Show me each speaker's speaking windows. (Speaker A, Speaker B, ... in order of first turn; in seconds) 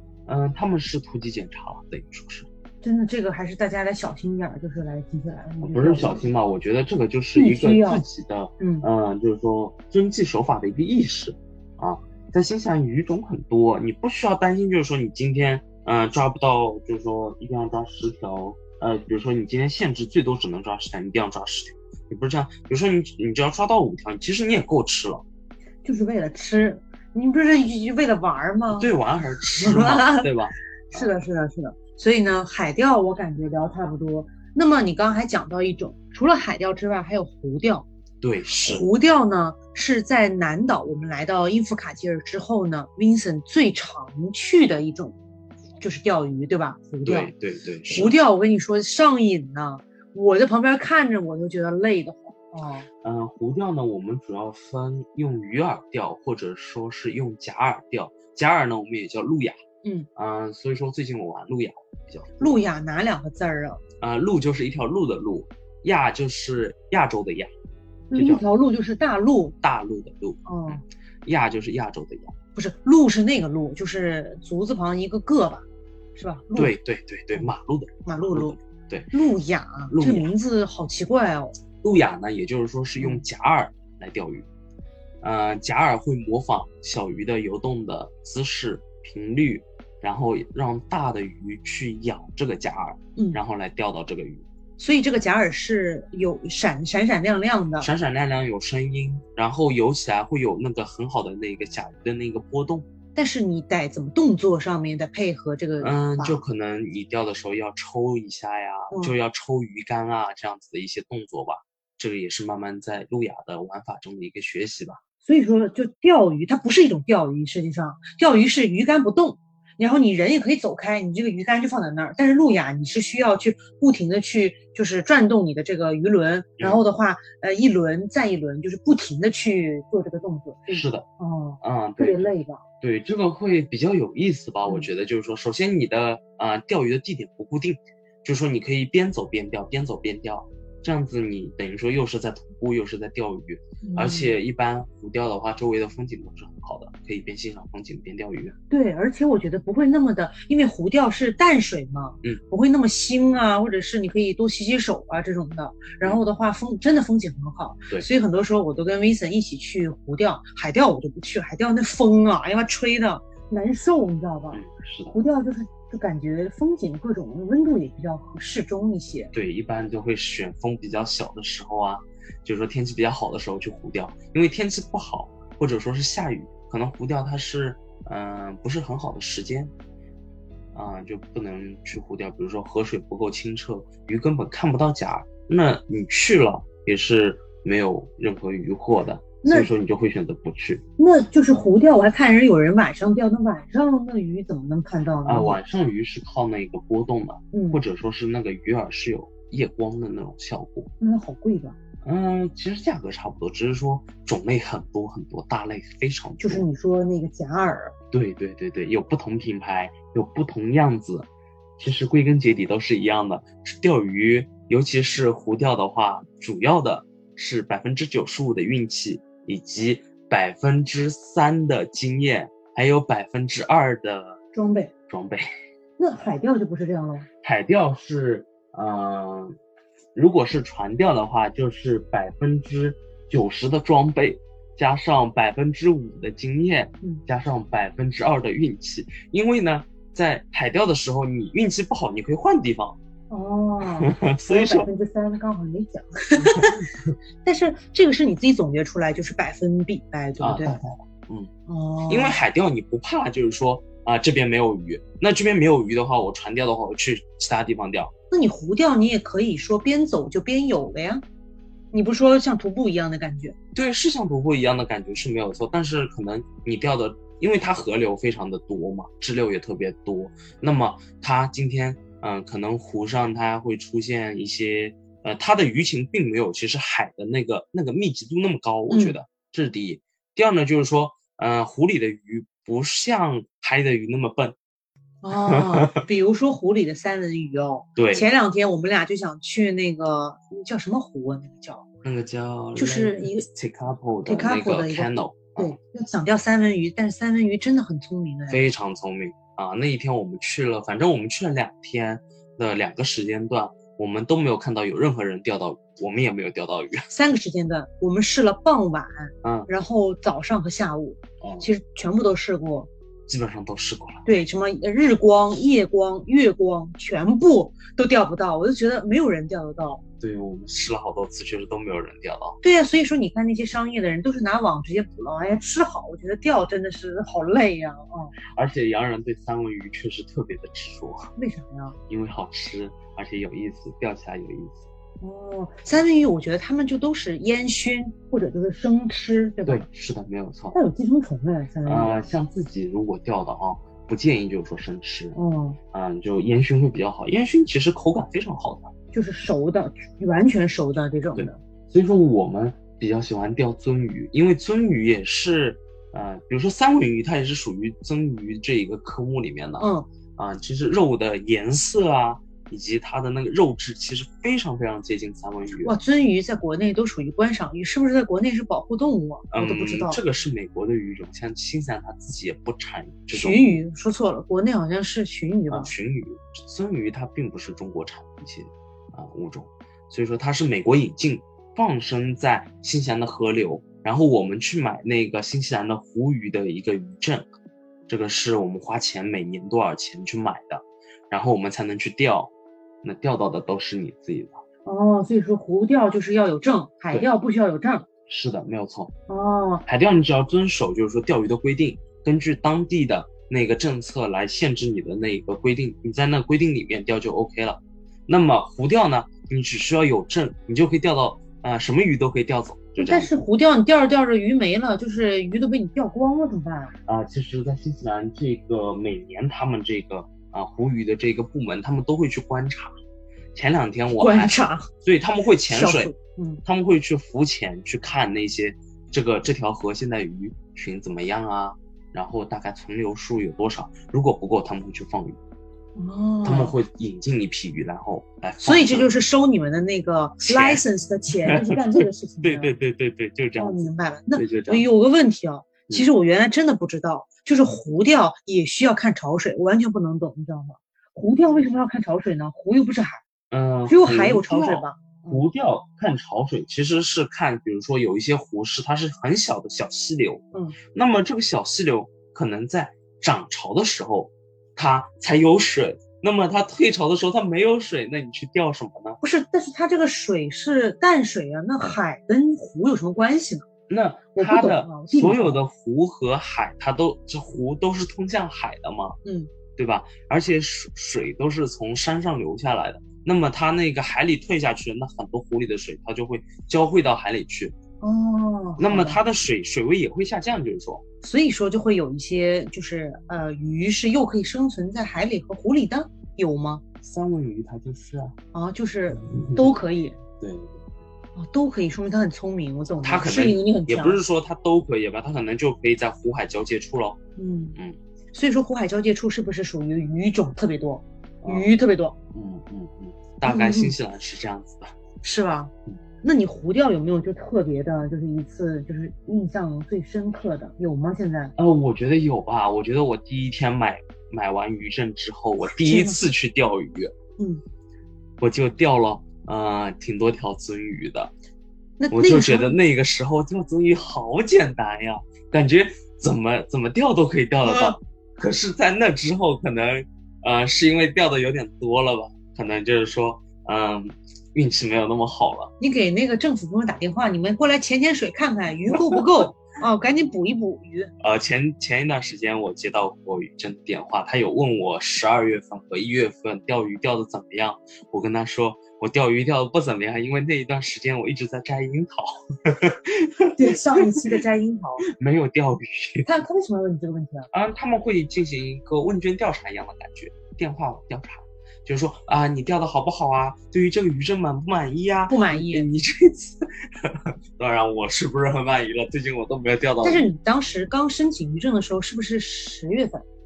Speaker A: 0.2-2.5, 5.6-25.2, 28.7-31.1, 38.2-38.9, 47.0-48.1, 53.0-59.6, 60.1-62.6, 64.0-67.5, 68.1-68.4, 69.6-72.3, 76.5-79.1, 79.9-80.3, 81.8-84.5, 85.2-94.4, 97.8-102.9, 105.8-115.0, 130.7-131.1, 131.6-132.3, 132.8-148.5, 164.5-165.2, 169.3-179.7, 180.7-190.8, 195.2-200.9, 202.0-206.7, 208.1-211.3, 211.8-224.4, 225.1-225.4, 227.4-229.6, 230.1-242.9, 243.8-244.9, 246.4-246.9, 250.4-251.5, 252.1-258.1, 263.7-284.6, 285.4-286.0, 287.9-288.2, 292.0-295.8, 298.5-307.1, 309.4-309.7, 311.4-311.7, 313.3-314.2, 320.2-322.6, 328.5-331.3, 332.1-334.9, 339.6-340.8, 341.8-345.4, 345.9-348.9, 351.3-365.9, 369.5-373.8, 375.7-387.5, 388.1-392.5, 393.0-394.6, 398.3-399.1, 399.9-413.3, 417.1-422.9, 423.5-426.1, 426.6-435.4, 436.4-439.1, 440.4-440.8, 441.4-444.9, 453.5-469.2, 473.9-479.2, 479.8-487.7, 488.8-491.0, 497.0-498.4, 499.2-499.8, 500.4-500.8, 503.0-507.2, 511.4-511.7, 512.3-514.9, 521.6-527.1, 528.4-531.3, 532.1-545.7, 548.9-549.2, 551.2-564.3, 565.0-566.3, 567.5-580.2
Speaker B: 2.8-6.3, 7.3-8.0, 8.6-8.8, 25.8-28.9, 29.6-30.3, 30.9-37.9, 38.6-45.1, 45.8-47.3, 47.9-52.9, 62.4-63.8, 68.1-69.6, 70.5-70.8, 72.5-75.6, 76.2-76.8, 78.0-78.6, 79.1-81.5, 83.0-83.2, 94.8-97.9, 103.1-106.4, 115.2-132.6, 143.8-144.4, 148.7-169.3, 189.4-189.7, 191.0-195.6, 197.5-197.8, 201.0-201.8, 206.4-207.9, 224.5-224.9, 226.0-227.3, 243.3-246.8, 247.4-250.8, 251.7-252.4, 258.3-261.2, 261.9-263.5, 278.9-279.1, 285.2-291.8, 292.8-293.4, 294.2-298.6, 307.1-312.9, 314.2-320.0, 322.6-328.3, 331.4-331.9, 335.2-339.9, 340.7-342.2, 345.3-345.8, 349.1-351.6, 359.8-360.1, 365.8-370.2, 373.3-375.9, 394.8-398.1, 399.3-399.8, 413.0-416.9, 424.1-424.9, 425.7-426.6, 435.9-436.8, 438.6-442.7, 443.6-453.2, 453.9-455.4, 469.2-473.7, 474.3-475.6, 479.2-479.5, 488.0-489.2, 491.2-496.8, 498.5-500.2, 501.4-504.2, 507.4-507.8, 508.3-512.1, 513.5-513.9, 515.2-515.7, 516.2-521.5, 525.7-526.2, 527.4-527.6, 532.0-532.7, 537.6-538.0, 545.8-551.1, 563.5-565.0, 566.2-567.5, 575.3-575.9, 580.0-583.2